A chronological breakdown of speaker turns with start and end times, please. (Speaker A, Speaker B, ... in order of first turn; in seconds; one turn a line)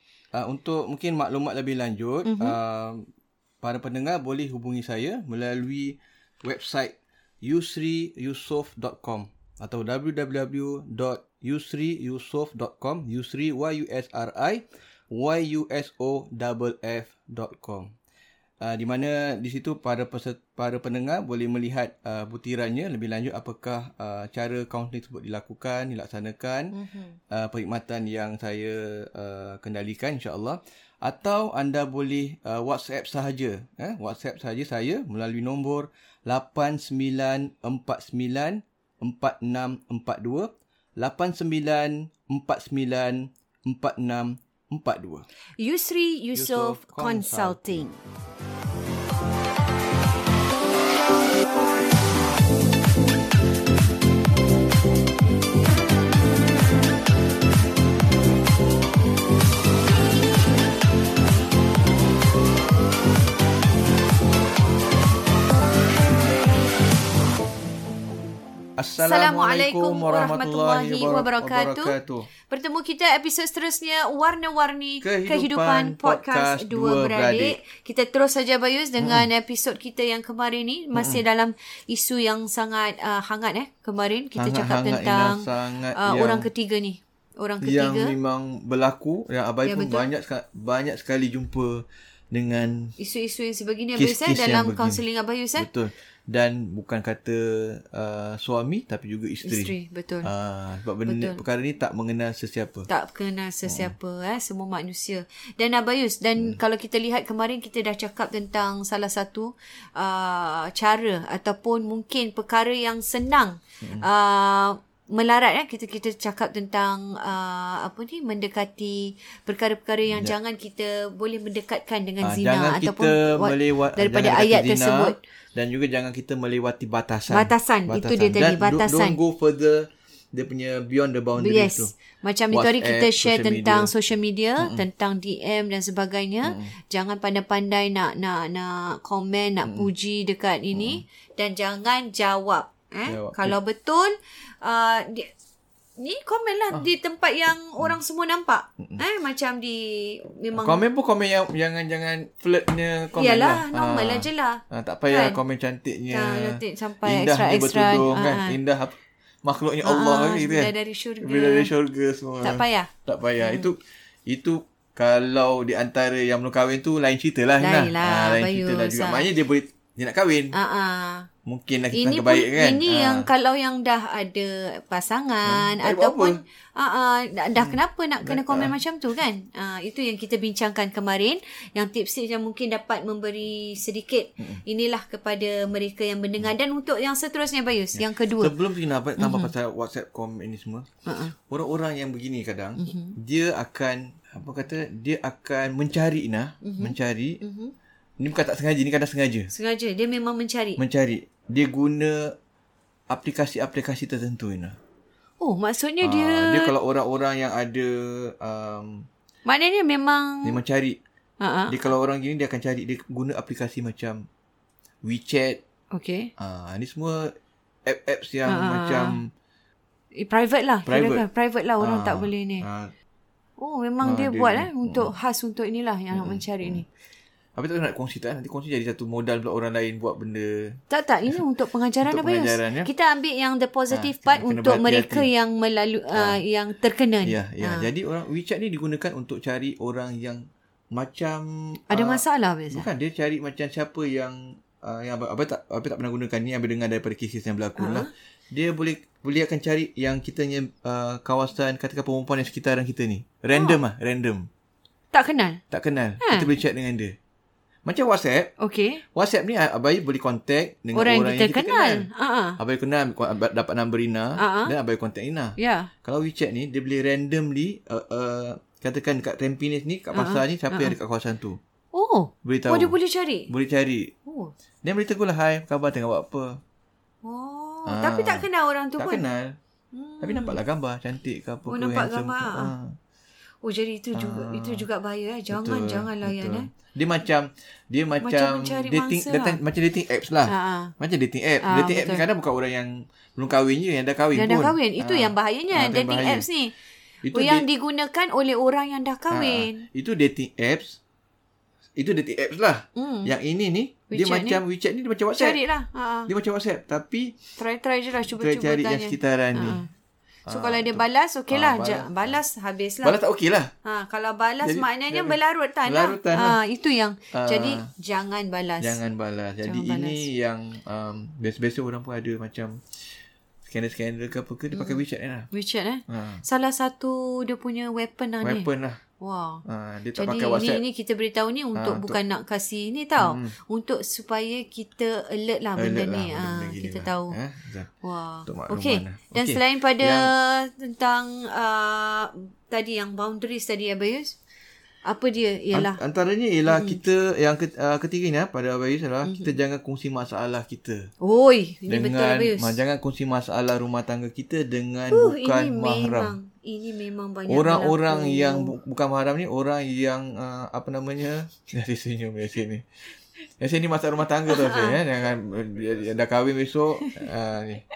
Speaker A: 0.3-3.1
Speaker B: 2.2-2.6
Speaker A: 3.6-17.9
Speaker A: 18.6-26.8
Speaker B: 26.7-27.2
Speaker A: 27.3-45.3
Speaker B: 45.6-48.0
Speaker A: 46.3-47.8
Speaker A: 68.8-72.3
Speaker B: 69.0-72.0
Speaker B: 72.5-88.2
Speaker A: 75.0-77.6
Speaker A: 79.0-79.3
Speaker A: 81.0-81.2
Speaker A: 84.4-86.5
Speaker A: 87.6-93.0
Speaker B: 89.6-90.1
Speaker B: 93.0-95.7
Speaker A: 94.0-95.0
Speaker A: 95.6-102.9
Speaker B: 99.4-100.3
Speaker B: 101.1-101.4
Speaker B: 102.9-125.2
Speaker A: 103.7-103.9
Speaker A: 113.8-114.1
Speaker A: 122.2-131.9
Speaker B: 127.3-129.2
Speaker B: 131.4-145.3
Speaker A: 132.5-133.9
Speaker A: 134.6-134.8
Speaker A: 136.4-136.7
Speaker A: 140.8-141.0
Speaker A: 143.1-143.6
Speaker B: 146.0-150.8
Speaker A: 150.5-170.6
Speaker B: 153.2-155.4
Speaker B: 156.1-158.6
Speaker B: 159.8-161.7
Speaker B: 162.4-163.7
Speaker B: 167.6-169.3
Speaker B: 170.5-171.3
Speaker A: 171.5-173.3
Speaker B: 171.9-188.6
Speaker A: 175.5-176.4
Speaker A: 177.6-178.8
Speaker A: 188.0-190.9
Speaker B: 189.2-189.5
Speaker B: 191.1-191.3
Speaker A: 191.5-197.4
Speaker B: 192.8-193.2
Speaker B: 196.6-197.7
Speaker A: 198.2-199.5
Speaker B: 199.5-200.8
Speaker A: 200.8-202.3
Speaker A: 203.1-204.8
Speaker B: 205.4-206.7
Speaker A: 206.0-209.1
Speaker B: 209.4-210.6
Speaker A: 210.4-211.0
Speaker B: 211.4-211.9
Speaker A: 211.7-214.3
Speaker A: 215.0-215.6
Speaker B: 215.9-216.3
Speaker A: 216.4-217.3
Speaker A: 217.9-219.3
Speaker B: 218.5-219.2
Speaker B: 220.2-222.7
Speaker A: 220.9-221.2
Speaker A: 221.8-222.9
Speaker B: 223.6-226.9
Speaker A: 224.0-225.1
Speaker A: 226.1-226.8
Speaker A: 227.6-230.8
Speaker B: 230.9-237.9
Speaker A: 232.0-232.9
Speaker A: 233.9-235.3
Speaker A: 236.1-236.4
Speaker A: 237.2-254.5
Speaker B: 241.9-242.9
Speaker B: 247.8-248.1
Speaker B: 253.5-253.8
Speaker B: 255.1-255.6
Speaker A: 255.7-257.2
Speaker B: 256.2-256.5
Speaker A: 257.9-258.5
Speaker B: 258.6-259.0
Speaker A: 259.1-271.6
Speaker B: 260.9-262.6
Speaker B: 264.4-264.7
Speaker B: 265.6-265.9
Speaker B: 270.1-270.9
Speaker B: 271.9-273.5
Speaker A: 272.4-273.0
Speaker A: 273.5-274.1
Speaker B: 274.2-274.5
Speaker A: 274.8-276.6
Speaker B: 277.2-279.2
Speaker A: 277.9-279.6
Speaker B: 279.9-280.6
Speaker A: 280.2-283.0
Speaker B: 281.7-282.7
Speaker B: 283.6-286.7
Speaker A: 284.1-284.9
Speaker A: 285.5-296.5
Speaker B: 288.2-289.6
Speaker B: 290.5-290.9
Speaker B: 291.6-292.3
Speaker B: 294.3-296.8
Speaker A: 297.2-297.7
Speaker B: 297.3-299.9
Speaker A: 299.3-301.0
Speaker A: 302.0-305.6
Speaker B: 303.0-303.3
Speaker B: 304.1-304.6
Speaker B: 305.4-306.3
Speaker A: 306.3-307.4
Speaker B: 307.6-309.9
Speaker A: 308.3-309.9
Speaker A: 310.5-312.4
Speaker B: 310.5-313.2
Speaker A: 313.0-313.7
Speaker B: 313.8-319.0
Speaker A: 314.6-316.6
Speaker A: 317.3-317.9
Speaker A: 318.8-322.8
Speaker B: 319.6-320.3
Speaker A: 323.7-325.5
Speaker B: 324.7-328.7
Speaker A: 326.1-326.4
Speaker A: 328.4-329.0
Speaker B: 329.2-329.6
Speaker A: 329.7-330.8
Speaker B: 330.1-337.4
Speaker A: 331.8-332.2
Speaker A: 333.2-333.6
Speaker A: 335.8-337.9
Speaker B: 338.0-344.4
Speaker A: 338.5-340.3
Speaker B: 345.1-346.0
Speaker A: 345.7-351.1
Speaker B: 346.7-347.0
Speaker B: 349.2-349.6
Speaker B: 351.2-352.8
Speaker A: 351.9-356.4
Speaker B: 355.1-358.8
Speaker A: 357.5-362.9
Speaker A: 363.6-367.8
Speaker B: 364.5-365.0
Speaker B: 367.0-367.3